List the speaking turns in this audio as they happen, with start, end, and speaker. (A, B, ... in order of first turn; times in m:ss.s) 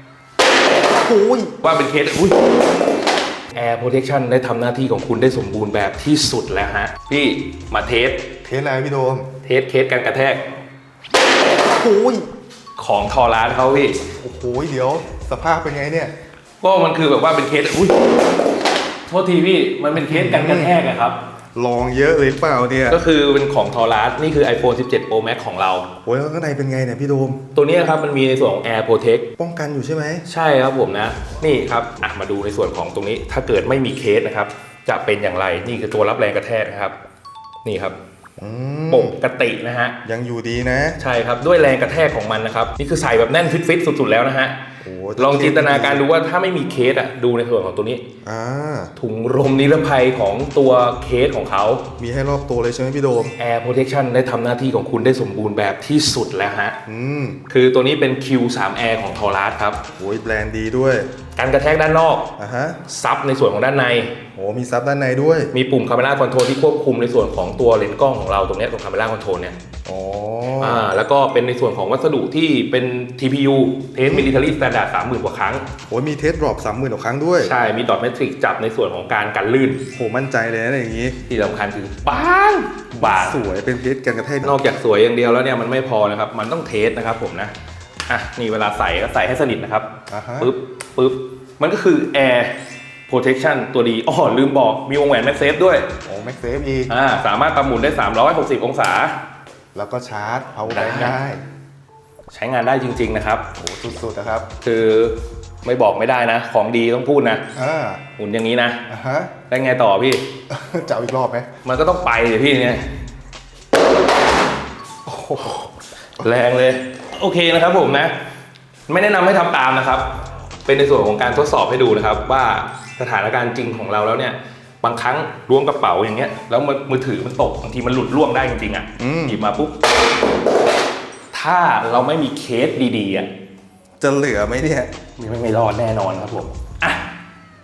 0:01.0-0:01.5 A
0:01.6-0:02.4 B
0:03.5-0:08.3 B
0:08.4-0:09.3 A
0:09.4-0:10.4 B
0:11.6-0:12.3 A
0:12.8-0:14.0 B
0:14.2-0:16.1 A
0:16.6-0:18.0 B
0:19.1-0:21.2 B
0:20.0-0:20.8 A
0:21.6-0:23.0 A
0:22.9-0:25.9 B
0:26.0-0:27.4 A
0:27.5-0:29.3 B
0:29.4-0:30.2 A
0:30.3-0:37.0 B
0:37.6-0:38.0 B
0:38.4-0:39.2 A
0:38.9-0:40.0 B
0:40.0-0:41.0 A
0:41.0-0:44.6 B
0:44.8-0:46.0 A
0:45.2-0:48.0 B
0:48.2-0:48.9 A
0:49.0-0:51.8 B
0:52.0-0:53.4 A
0:53.4-0:56.8 B
0:56.9-0:57.4 A
0:57.5-0:59.8 B
1:00.0-1:01.1 A
1:01.4-1:02.3 B
1:02.4-1:02.8 A
1:02.9-1:04.1 B
1:04.3-1:05.5 A
1:05.5-1:09.6 B
1:09.8-1:10.9 A
1:10.6-1:15.6 B
1:15.9-1:17.5 A
1:17.4-1:19.8 B
1:19.9-1:21.2 A
1:21.3-1:23.4 B
1:22.9-1:24.6 A
1:24.4-1:27.5 B
1:28.1-1:29.9 B
1:30.1-1:30.5 A
1:30.4-1:32.6 B
1:33.1-1:35.9 B
1:36.0-1:36.9 A
1:36.9-1:39.2 B
1:39.7-1:41.4 A
1:40.7-1:41.2 B
1:42.3-1:43.5 B
1:43.6-1:44.5 A
1:44.6-1:47.4 B
1:47.6-1:48.0 A
1:48.2-1:48.8 B
1:48.9-1:49.3 A
1:49.5-1:50.3 B
1:50.5-1:51.5 A
1:51.6-1:52.9 B
1:55.1-1:55.6 A
1:56.2-1:58.1 B
1:58.9-2:00.1 B
2:00.7-2:09.7 B
2:09.0-2:09.4 A
2:11.3-2:13.3 B
2:14.0-2:14.9 A
2:15.2-2:17.1 B